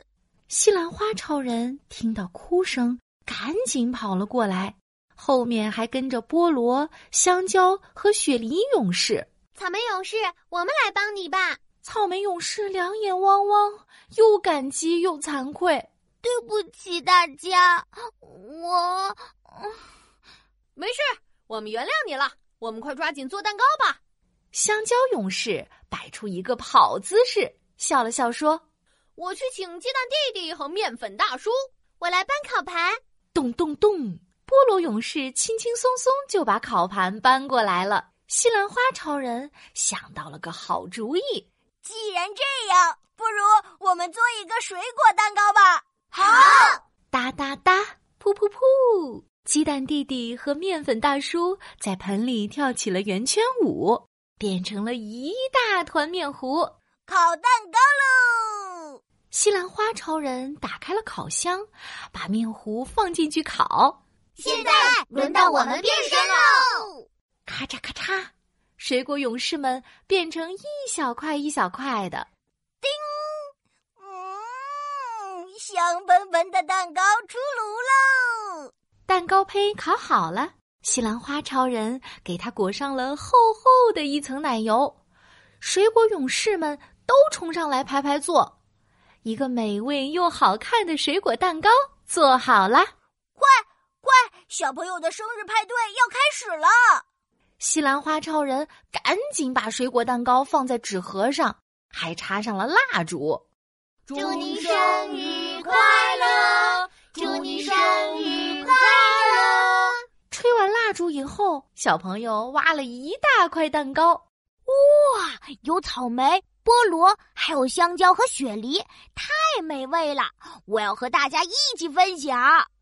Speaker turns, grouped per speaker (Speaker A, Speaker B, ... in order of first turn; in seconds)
Speaker A: 0.5-9.3, 11.8-15.9, 24.5-28.6, 33.3-41.5, 47.1-56.7, 59.3-64.0, 67.5-72.3, 79.1-85.0, 85.6-88.5, 89.2-92.9, 97.6-103.4, 110.3-114.2
Speaker B: 9.6-11.6, 20.8-24.0, 29.2-33.0, 104.1-106.0, 107.2-108.7
Speaker C: 16.2-19.8, 46.3-46.7, 64.4-67.1, 107.2-109.5, 114.7-122.7
Speaker D: 41.8-46.8, 57.1-59.0, 64.4-66.8, 72.8-78.7, 93.4-97.0, 104.1-109.7